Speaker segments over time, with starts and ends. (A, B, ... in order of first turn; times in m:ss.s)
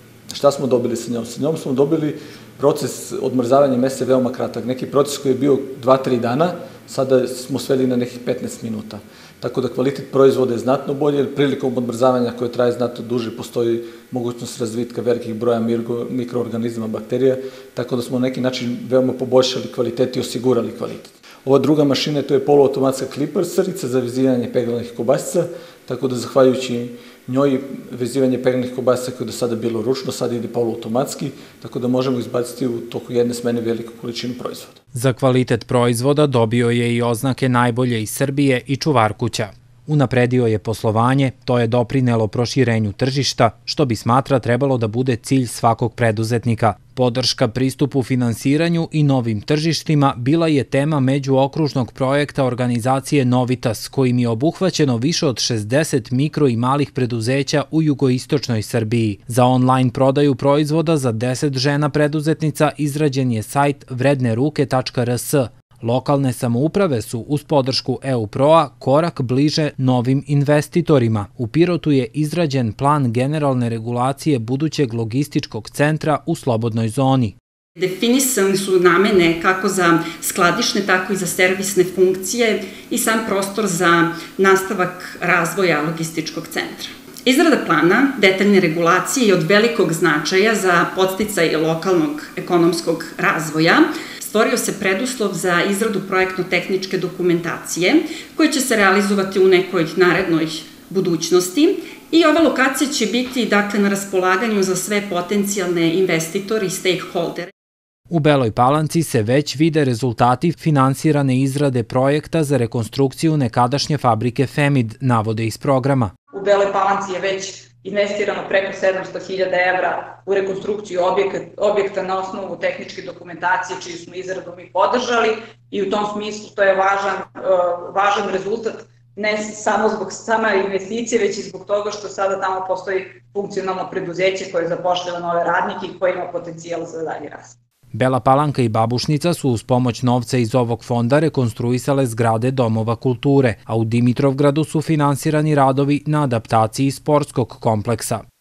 0:00.3-0:34.8 A
0:34.9-1:17.3 B
1:17.8-1:47.5 C
1:48.1-1:56.1 B
1:56.3-2:17.6 D
2:17.9-2:28.2 B